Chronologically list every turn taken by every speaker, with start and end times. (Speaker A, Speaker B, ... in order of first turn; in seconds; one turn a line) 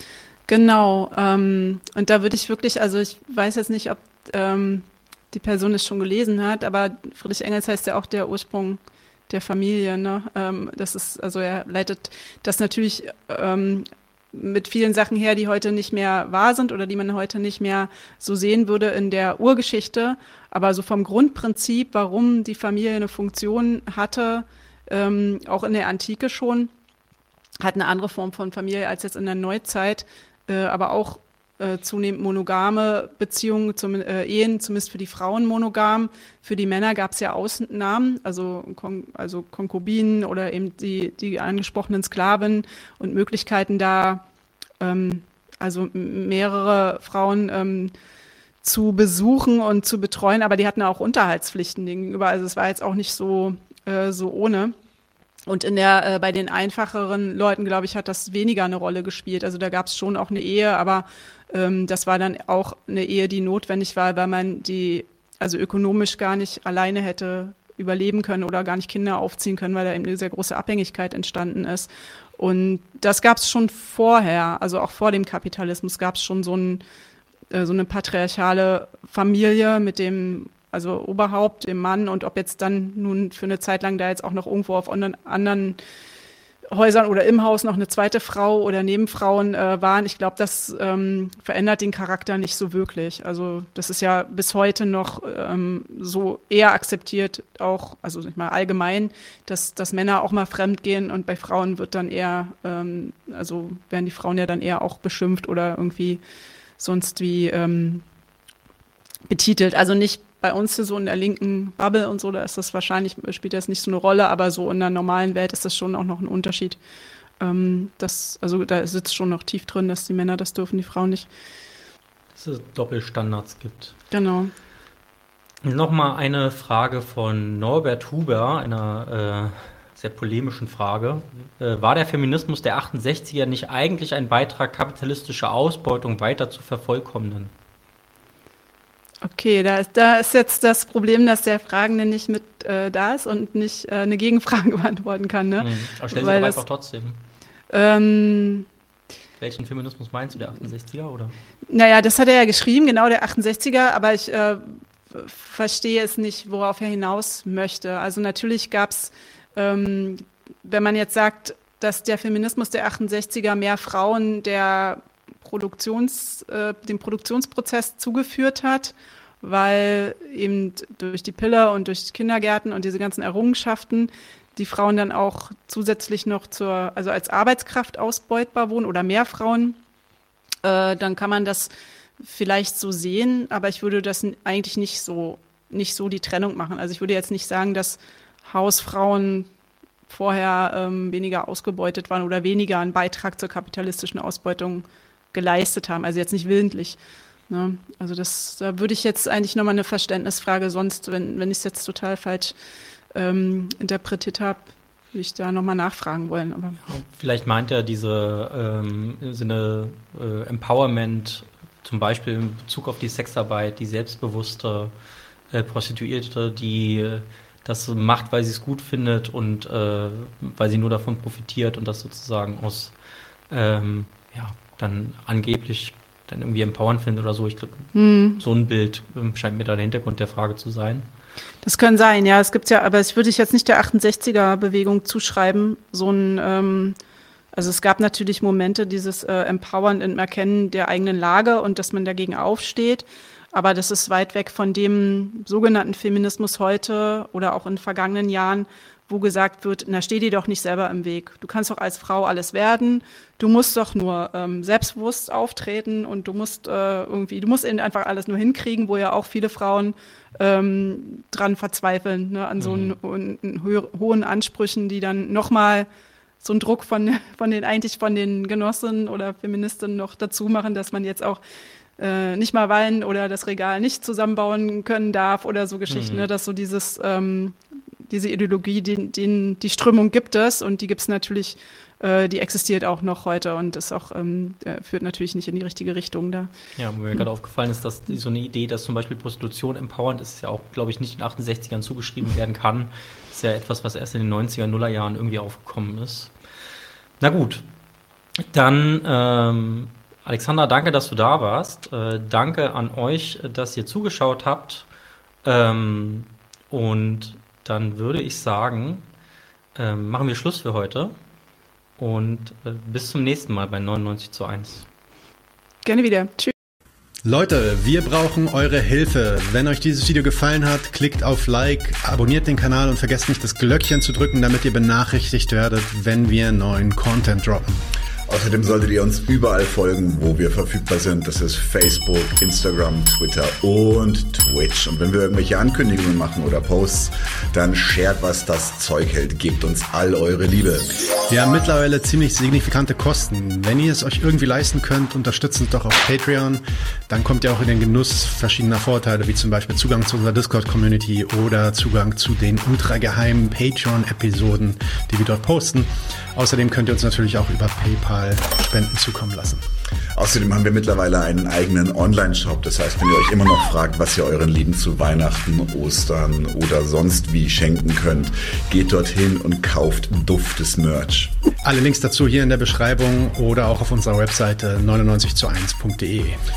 Speaker A: 0.5-26.7
Speaker A: 27.6-44.2
Speaker A: 44.8-47.9
Speaker A: 48.6-54.7
Speaker A: 55.5-76.8
Speaker A: 77.5-85.8
Speaker A: 86.7-106.2
Speaker A: 106.8-108.0
Speaker A: 109.3-116.8
Speaker A: 117.4-121.3
Speaker B: 122.3-124.0
Speaker A: 124.1-124.5
Speaker B: 125.6-137.5
Speaker A: 139.2-146.6
Speaker B: 145.6-147.2
Speaker A: 147.7-148.7
Speaker B: 149.4-151.4
Speaker A: 151.7-179.8
Speaker A: 180.6-189.5
Speaker A: 190.1-202.5
Speaker A: 203.1-206.8
Speaker B: 206.9-214.9
Speaker B: 215.5-222.9
Speaker B: 223.5-231.1
Speaker A: 227.9-228.4
Speaker A: 231.6-237.0
Speaker A: 237.5-265.9
Speaker B: 262.6-263.0
Speaker A: 266.4-271.4
Speaker A: 272.0-286.5
Speaker B: 275.9-276.3
Speaker B: 286.8-296.3
Speaker B: 297.2-297.7
Speaker B: 298.4-304.9
Speaker B: 305.4-309.1
Speaker B: 309.8-311.1
Speaker B: 312.0-314.9
Speaker A: 315.9-316.5
Speaker C: 317.2-327.8
Speaker D: 328.3-340.9
Speaker C: 341.3-359.6
Speaker D: 360.2-371.3
Speaker C: 371.6-376.4